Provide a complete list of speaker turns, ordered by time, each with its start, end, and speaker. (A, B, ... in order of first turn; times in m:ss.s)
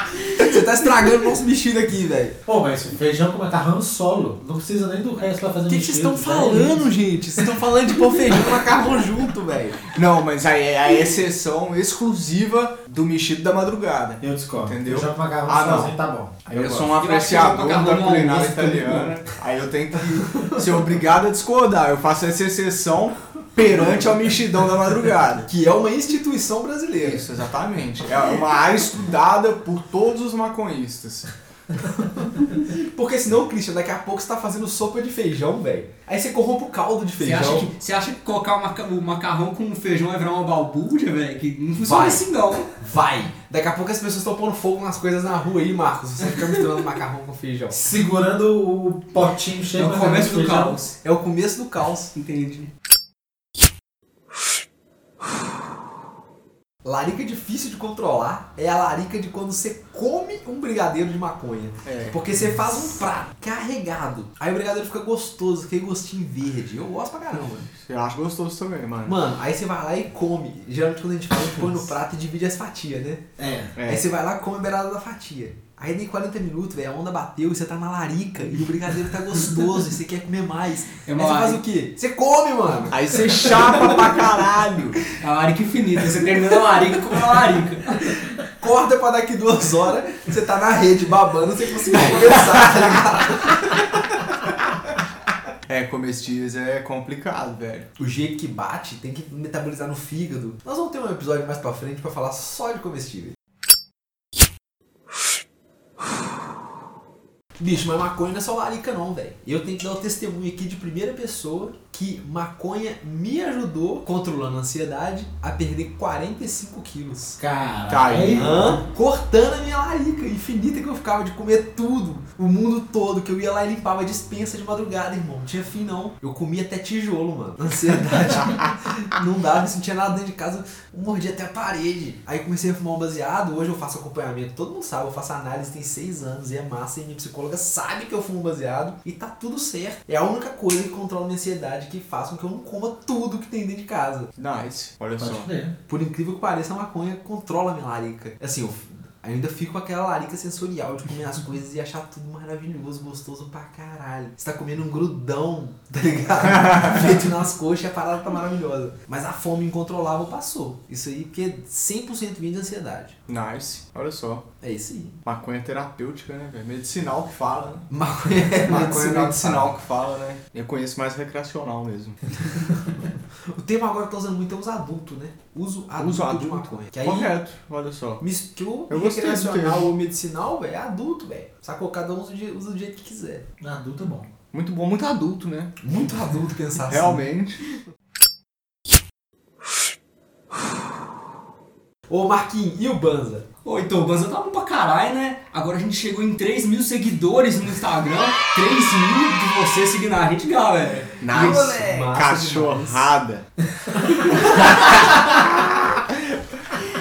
0:00.3-0:02.4 A
0:02.5-0:06.9 B
0:05.7-0:09.9 A
0:09.9-0:16.0 C
0:14.2-0:16.9 B
0:16.5-0:25.5 C
0:17.0-0:19.2 D
0:23.7-0:24.4 A
0:25.4-0:27.3 A
0:27.0-0:31.3 C
0:31.9-0:37.7 A
0:37.2-0:42.7 D
0:41.8-0:47.8 A
0:47.7-0:50.8 B
0:49.8-0:51.0 D
0:51.0-0:52.1 A
0:52.2-0:52.7 D
0:56.8-1:07.7 A
1:01.8-1:02.2 C
1:07.7-1:09.2 C
1:09.0-1:13.2 A
1:13.4-1:13.7 B
1:13.8-1:14.1 C
1:13.9-1:24.1 A
1:21.0-1:21.6 D
1:22.9-1:25.0 C
1:25.1-1:28.2 D
1:28.3-1:34.0 A
1:32.1-1:33.0 C
1:35.7-1:37.9 C
1:38.0-1:43.4 A
1:47.6-1:57.4 A
1:57.4-1:58.8 B
1:57.9-1:58.7 C
1:58.3-2:24.3 A
2:24.4-2:25.5 C
2:25.2-2:25.8 B
2:25.9-2:43.2 A
2:36.6-2:37.2 C
2:43.3-2:44.4 C
2:44.6-2:45.2 A
2:45.2-2:47.9 C
2:47.9-2:49.8 A
2:48.5-2:52.2 C
2:52.5-2:57.3 A
2:56.0-2:58.2 C
2:58.2-3:03.5 A
2:58.9-2:59.9 C
3:03.6-3:04.3 B
3:04.5-3:05.7 C
3:05.8-3:07.3 A
3:06.9-3:07.6 C
3:12.1-3:13.5 A
3:13.6-3:21.5 D
3:21.2-3:23.5 C
3:21.3-3:23.1 A
3:24.1-3:26.4 C
3:24.1-3:24.7 A